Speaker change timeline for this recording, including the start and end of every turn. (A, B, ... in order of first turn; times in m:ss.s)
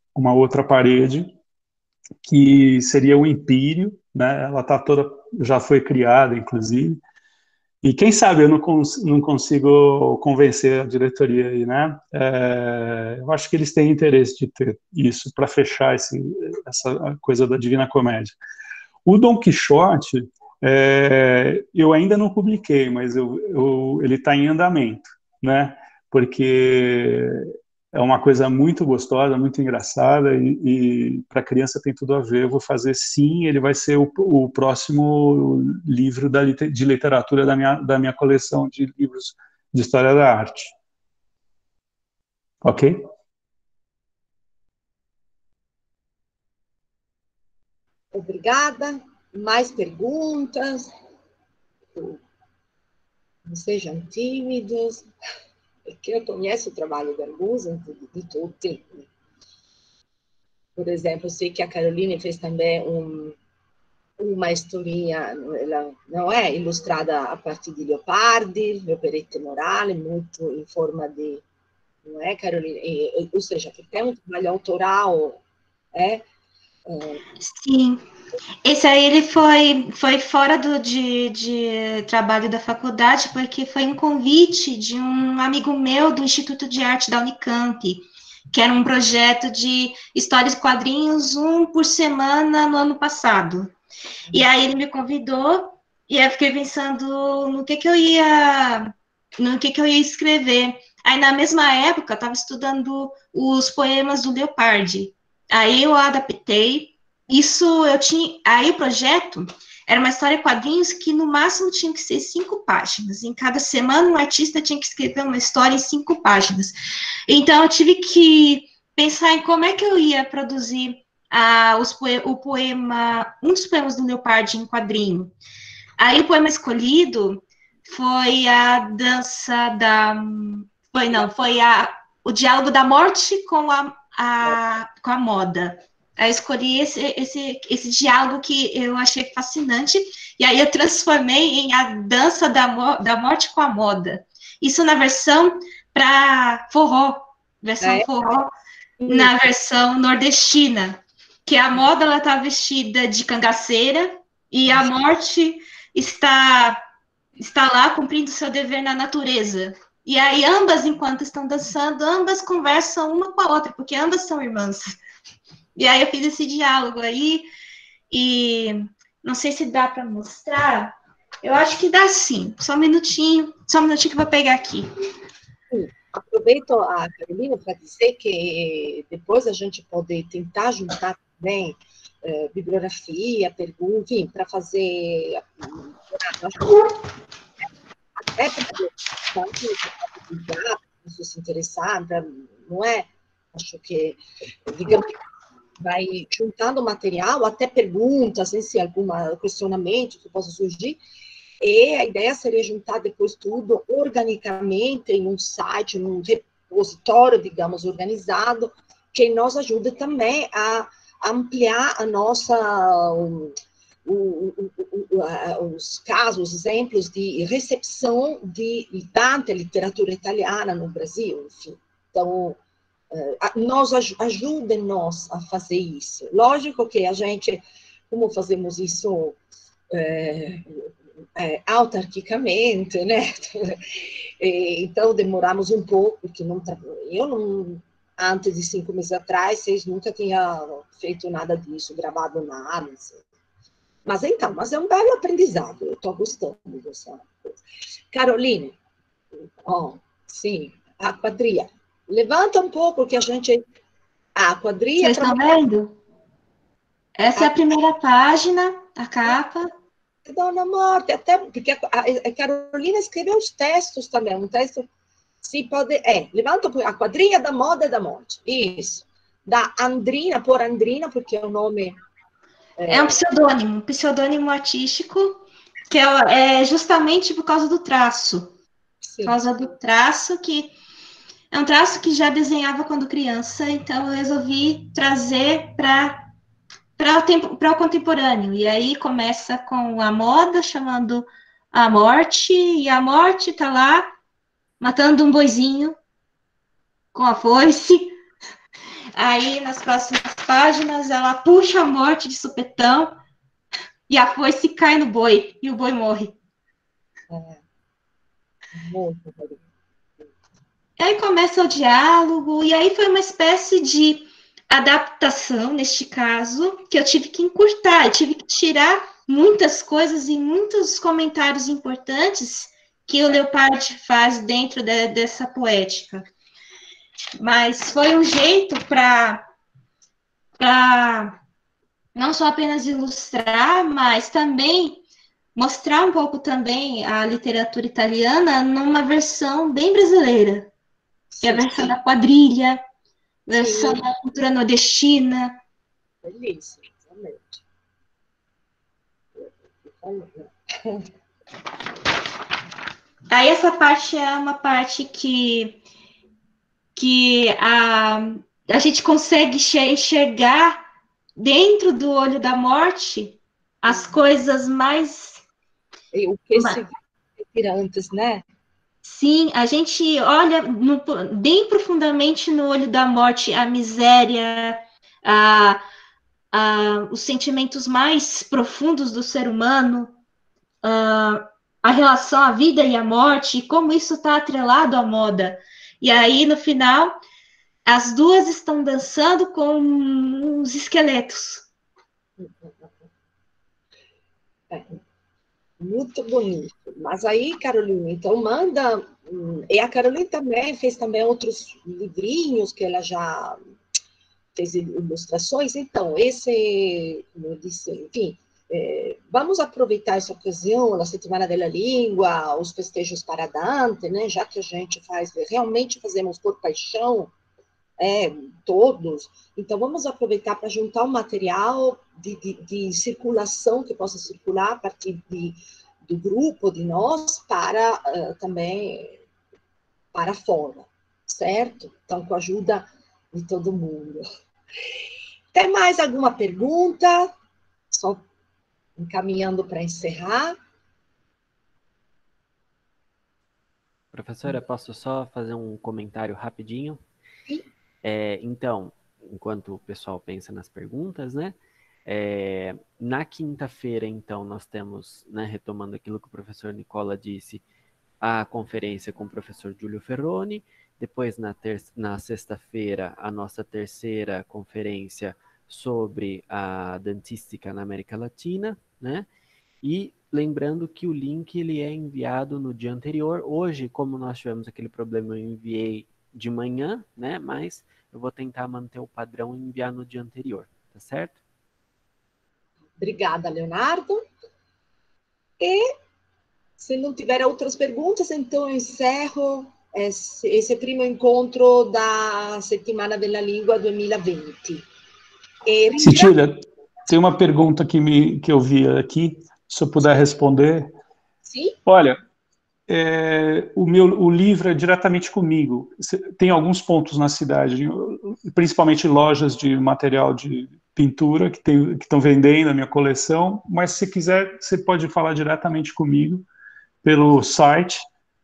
0:00.2-0:01.3 A
0:02.2-0:07.0 A
0:07.8-0:18.4 A
0:19.0-0:40.8 A
0:42.6-0:43.1 A
0:48.1-0:50.9 B
0:52.0-0:52.2 B
0:53.5-0:55.1 B
0:55.9-0:59.1 B
1:00.8-1:03.4 B
1:04.2-1:11.4 B
1:12.0-1:15.4 B
1:15.9-1:16.3 B
1:16.9-1:17.2 B
1:17.4-1:18.0 C
1:18.6-1:33.7 C
1:34.3-1:56.8 C
1:57.3-2:05.3 C
2:06.0-2:28.5 C
2:27.8-2:28.1 B
2:29.0-2:29.3 B
2:29.1-2:36.8 C
2:37.4-2:45.0 C
2:45.8-2:47.5 C
2:48.1-2:54.9 C
2:55.7-3:06.9 B
3:08.2-3:15.2 B
3:15.8-3:21.0 B
3:21.6-3:42.6 B
3:43.1-3:49.4 B
3:49.9-4:03.2 B
4:04.0-4:07.6 B
4:08.1-4:08.8 B
4:09.6-4:13.6 B
4:14.4-4:15.6 B
4:15.0-4:16.0 C
4:17.2-4:19.7 C
4:17.4-4:17.6 B
4:20.3-4:24.9 B
4:25.4-4:32.0 B
4:32.8-4:33.2 B
4:32.9-4:38.5 C
4:39.0-4:39.4 B
4:39.2-4:40.7 C
4:41.5-4:46.3 C
4:47.0-4:54.1 C
4:54.8-4:56.0 C
4:57.1-4:58.1 C
4:59.2-5:03.2 C
5:04.1-5:06.4 C
5:07.3-5:07.6 B
5:08.8-5:09.6 B
5:11.0-5:26.3 C
5:27.4-5:29.5 C
5:30.6-5:31.4 C
5:32.2-5:35.0 C
5:35.6-5:40.7 C
5:41.3-5:42.0 B
5:41.4-5:42.8 C
5:43.5-5:45.6 C
5:43.6-5:44.0 B
5:46.2-5:47.6 B
5:49.4-5:51.1 B
5:53.3-5:55.8 C
5:57.0-6:00.8 C
6:01.4-6:05.4 C
6:03.9-6:04.2 B
6:06.1-6:07.0 B
6:07.5-6:08.4 B
6:09.0-6:15.8 C
6:16.5-6:20.2 C
6:20.8-6:27.2 C
6:27.9-6:31.7 C
6:32.4-6:33.1 B
6:34.7-6:35.0 B
6:35.8-6:43.6 B
6:44.6-6:57.3 B
6:58.0-7:09.2 B
7:10.1-7:14.2 B
7:15.5-7:17.3 B
7:17.9-7:18.2 B
7:19.0-7:20.6 B
7:24.1-7:27.0 D
7:28.0-7:37.6 D
7:38.2-7:49.3 D
7:49.8-8:01.4 D
8:03.0-8:04.2 B
8:05.6-8:05.9 B
8:06.8-8:14.8 B
8:15.7-8:16.3 B
8:16.0-8:20.9 A
8:21.4-8:21.8 B
8:21.9-8:22.2 A
8:22.9-8:36.5 A
8:37.0-8:38.0 A